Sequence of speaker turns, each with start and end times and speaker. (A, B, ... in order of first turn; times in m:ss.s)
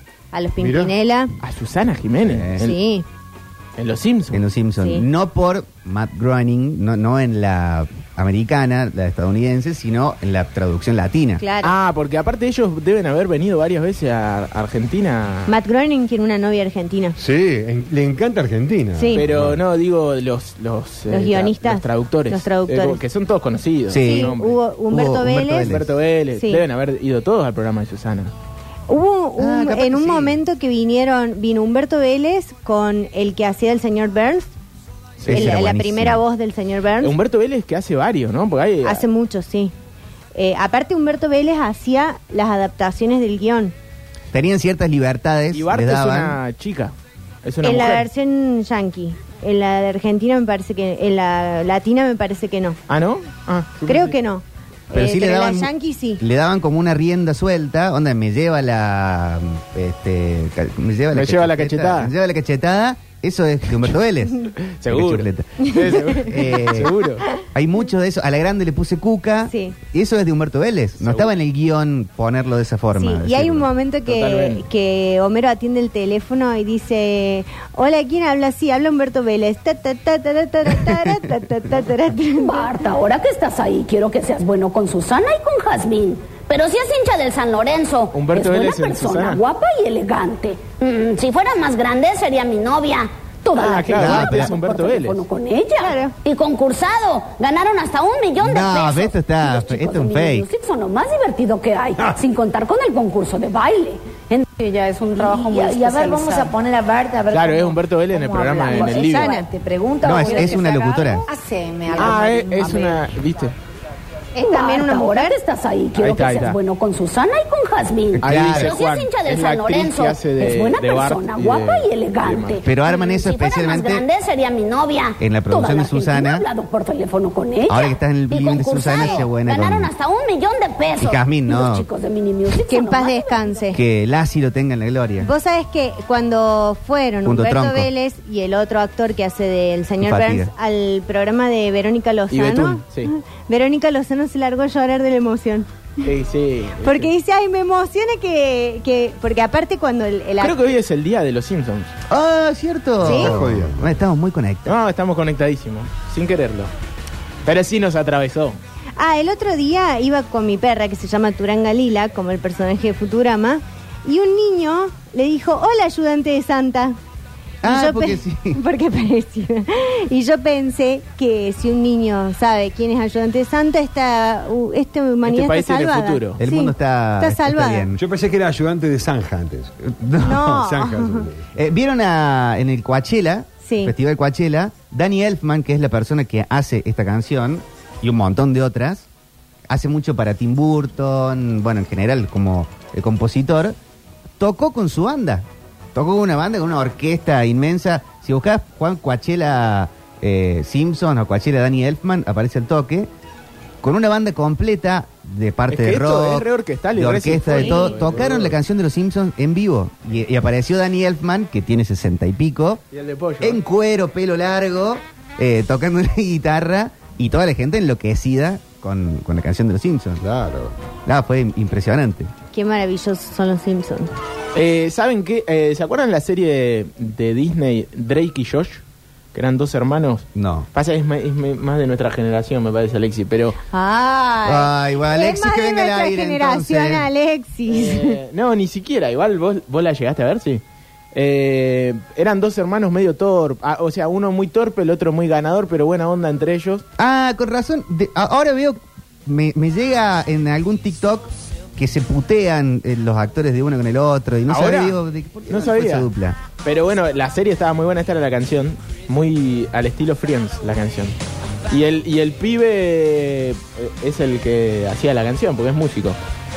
0:00.3-0:01.3 A
0:00.6-0:00.9 B
0:01.4-0:02.8 C
0:02.2-0:02.7 D
0:02.6-0:03.1 A
0:03.8-0:04.4 C
0:04.3-0:11.4 D
0:04.8-0:05.0 A
0:11.4-0:11.8 A
0:11.6-0:15.5 C
0:15.5-0:17.2 A
0:17.2-0:19.6 B
0:19.0-0:19.2 A
0:19.2-0:24.6 C
0:21.1-0:23.0 A
0:23.9-0:24.4 D
0:24.0-0:25.8 A
0:24.9-0:25.9 D
0:25.6-0:28.3 C
0:26.4-0:26.6 A
0:28.9-0:34.5 A
0:29.4-0:30.4 D
0:35.2-0:35.6 C
0:35.2-0:36.2 D
0:35.3-0:37.2 A
0:37.0-0:39.0 C
0:38.8-0:39.7 A
0:40.3-0:43.7 A
0:44.3-0:46.4 D
0:45.5-0:48.1 C
0:47.6-0:52.8 A
0:52.9-0:54.2 C
0:53.9-0:56.2 A
0:54.9-1:06.9 D
1:01.1-1:02.1 C
1:04.6-1:07.3 C
1:07.5-1:13.7 D
1:09.5-1:09.8 A
1:11.0-1:11.3 C
1:13.0-1:22.8 A
1:14.1-1:14.6 C
1:22.3-1:44.5 E
1:28.1-1:29.4 C
1:33.6-1:35.2 C
1:34.0-1:34.5 D
1:35.8-1:36.1 A
1:38.4-1:40.5 D
1:44.6-1:53.0 F
1:45.1-1:46.5 E
1:47.3-1:49.4 C
1:48.7-1:49.3 E
1:49.2-1:49.5 A
1:50.0-1:51.2 D
1:52.0-1:53.5 C
1:54.4-1:55.4 A
1:54.4-2:13.6 E
1:56.0-1:56.6 C
1:58.2-1:58.8 D
1:58.2-2:02.6 C
2:02.6-2:04.0 D
2:05.2-2:06.4 D
2:07.7-2:09.9 D
2:11.0-2:11.9 D
2:12.6-2:13.8 A
2:13.7-2:15.3 D
2:15.2-2:26.0 A
2:17.2-2:17.9 D
2:20.0-2:20.5 D
2:22.3-2:23.1 C
2:26.0-2:27.1 C
2:26.8-2:30.8 A
2:30.4-2:31.9 C
2:32.1-2:34.8 D
2:33.0-2:33.9 B
2:33.0-2:33.4 A
2:34.7-2:36.7 C
2:37.5-2:38.6 C
2:39.0-2:47.0 A
2:47.6-2:48.6 D
2:47.6-2:57.9 A
2:55.2-2:56.4 C
2:56.4-2:58.0 D
2:58.0-2:59.8 B
2:59.8-3:00.6 D
3:00.2-3:01.3 A
3:00.3-3:01.5 B
3:01.6-3:09.1 D
3:03.6-3:03.9 A
3:09.7-3:13.8 D
3:14.4-3:23.1 D
3:23.8-3:32.8 D
3:25.7-3:28.6 C
3:32.9-3:33.6 C
3:33.4-3:40.2 D
3:40.2-3:40.7 B
3:41.1-3:42.3 D
3:42.5-3:44.1 A
3:44.6-3:48.8 C
3:49.3-3:53.6 C
3:50.4-3:50.7 D
3:53.7-3:58.2 A
3:54.4-3:57.1 D
3:57.7-4:00.6 C
4:01.1-4:06.8 C
4:07.0-4:16.4 D
4:14.5-4:16.1 C
4:16.6-4:21.2 C
4:21.7-4:26.2 C